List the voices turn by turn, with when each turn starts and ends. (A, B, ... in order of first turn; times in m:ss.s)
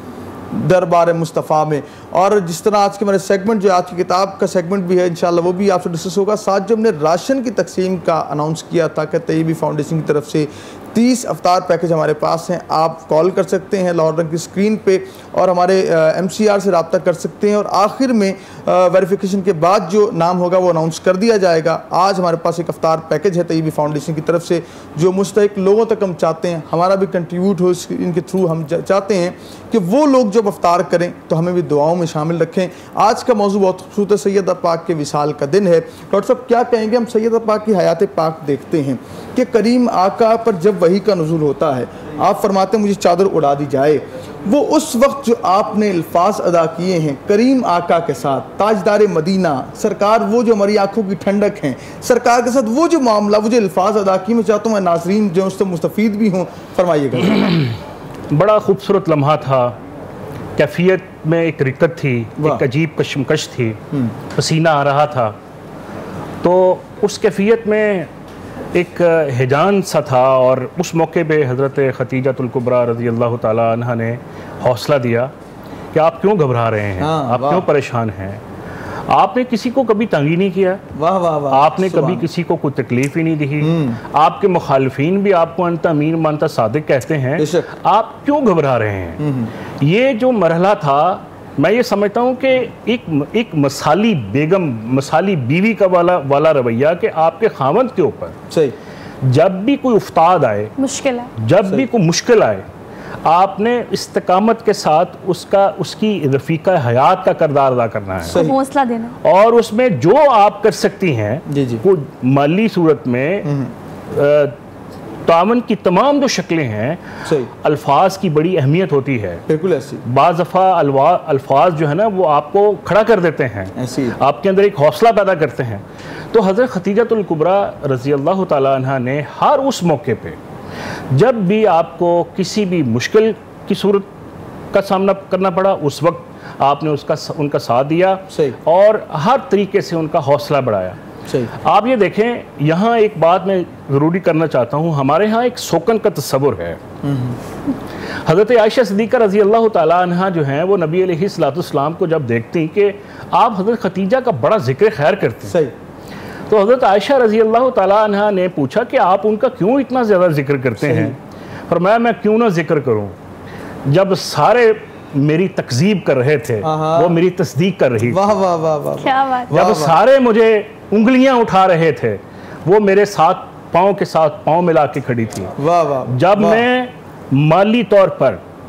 0:00.5-0:57.4 A
0:57.4-0:57.7 B
0:58.3-0:59.8 B
1:00.6-1:03.8 B
1:04.3-1:05.3 B
1:06.4-1:08.1 B
1:08.7-1:15.3 B
1:15.9-1:18.4 B
1:17.0-1:17.6 A
1:19.1-1:20.8 B
1:21.0-1:22.2 A
1:21.5-1:29.2 B
1:23.6-1:24.0 A
1:27.4-1:27.7 A
1:29.2-1:29.5 A
1:29.8-1:38.3 B
1:38.5-1:38.8 A
1:39.2-1:40.7 B
1:40.8-1:41.3 C
1:41.4-1:42.6 B
1:43.2-1:48.4 B
1:48.2-1:48.6 A
1:48.3-1:49.2 C
1:49.2-1:53.5 B
1:51.5-1:51.8 A
1:53.4-1:53.7 A
1:54.1-1:54.5 B
1:55.3-1:57.0 B
1:57.6-1:59.4 B
1:59.5-2:00.0 A
2:00.0-2:10.4 B
2:03.8-2:04.2 A
2:11.1-2:14.1 B
2:14.7-2:21.0 B
2:21.6-2:26.8 B
2:27.0-2:27.4 A
2:28.2-2:35.6 B
2:35.5-2:35.7 A
2:36.5-2:41.2 B
2:40.8-2:41.1 A
2:41.7-2:43.2 B
2:43.9-2:48.2 B
2:46.6-2:47.2 A
2:48.1-2:50.0 A
2:49.0-2:49.5 C
2:49.5-2:55.5 B
2:55.6-2:56.6 A
2:56.1-2:58.4 B